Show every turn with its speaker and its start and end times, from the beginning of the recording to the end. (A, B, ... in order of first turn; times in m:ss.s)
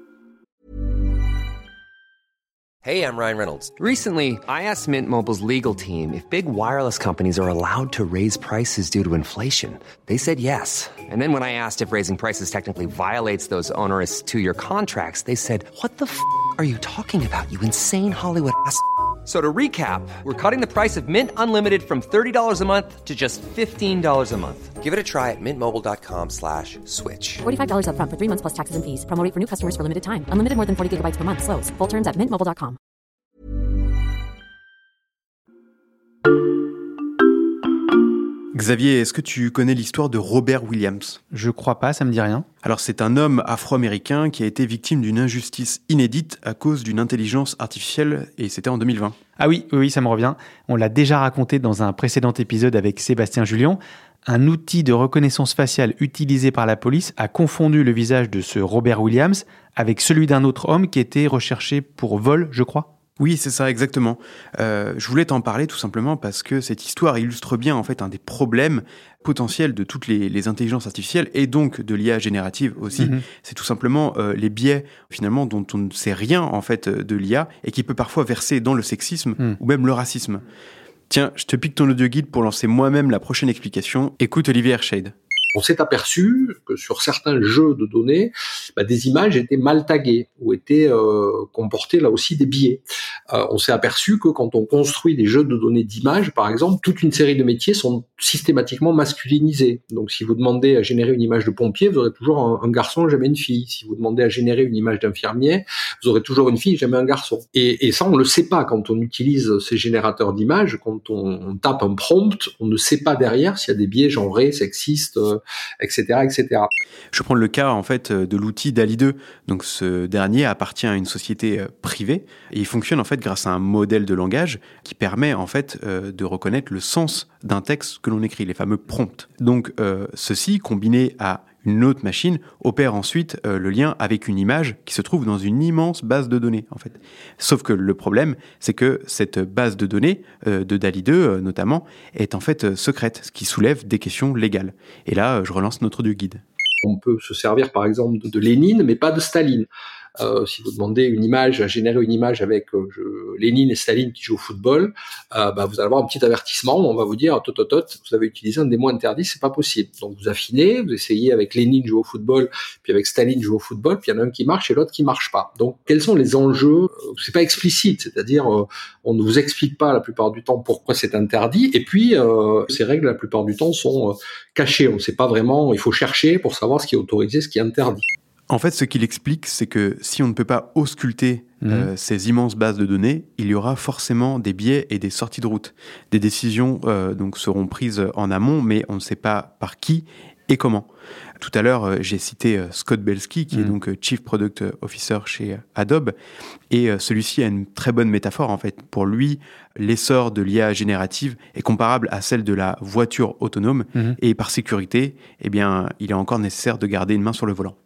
0:02.8-0:03.8 A
0:03.8-0:24.7 B
0:24.8-0:27.4 A
0:27.4-0:32.8 C
0:38.5-0:41.2 D
0:41.3-0:42.5 E
0:42.6-0:49.2 D
0:49.4-1:02.9 E
1:03.2-1:20.4 D
1:21.1-1:25.1 D
1:25.5-1:56.7 F
1:57.1-2:26.4 D
2:26.8-2:29.7 F
2:30.2-2:58.1 F
2:58.5-3:10.9 D
3:01.6-3:01.9 E
3:11.4-3:16.2 D
3:16.7-3:27.8 D